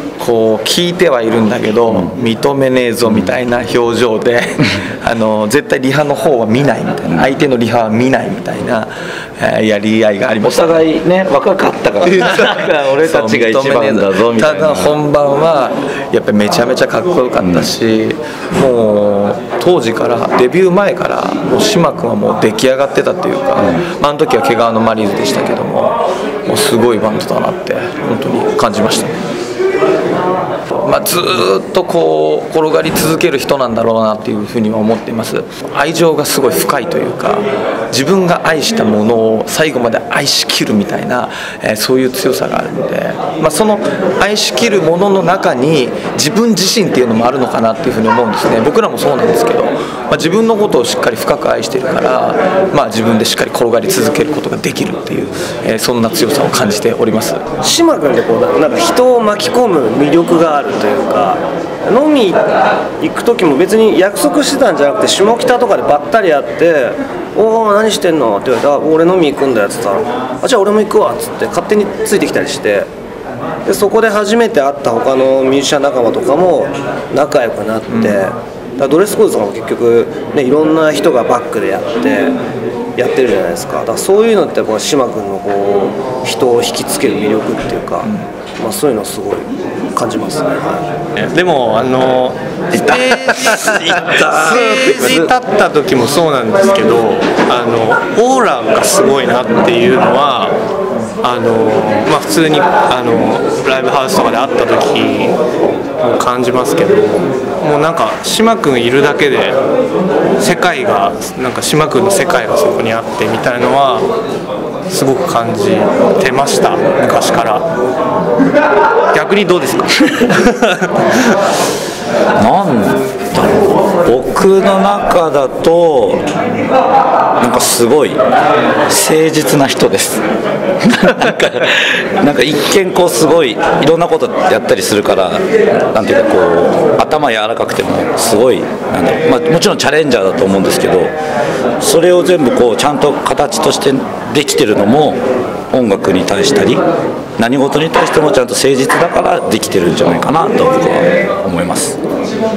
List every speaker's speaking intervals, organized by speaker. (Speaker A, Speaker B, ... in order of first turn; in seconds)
Speaker A: 0.2-10.8, 12.0-29.2, 30.8-57.4, 77.9-78.2, 92.7-95.3
Speaker B: 10.4-15.0, 17.4-17.7, 23.6-23.8, 94.0-95.0, 122.3-126.2, 127.4-128.2, 128.9-130.2, 130.8-141.1, 141.8-146.8, 147.4-152.0
Speaker C: 57.6-72.9, 73.7-82.3, 83.0-90.9
Speaker D: 91.1-100.6, 101.2-105.4, 106.0-109.6, 110.4-114.1, 114.9-117.7, 119.1-120.9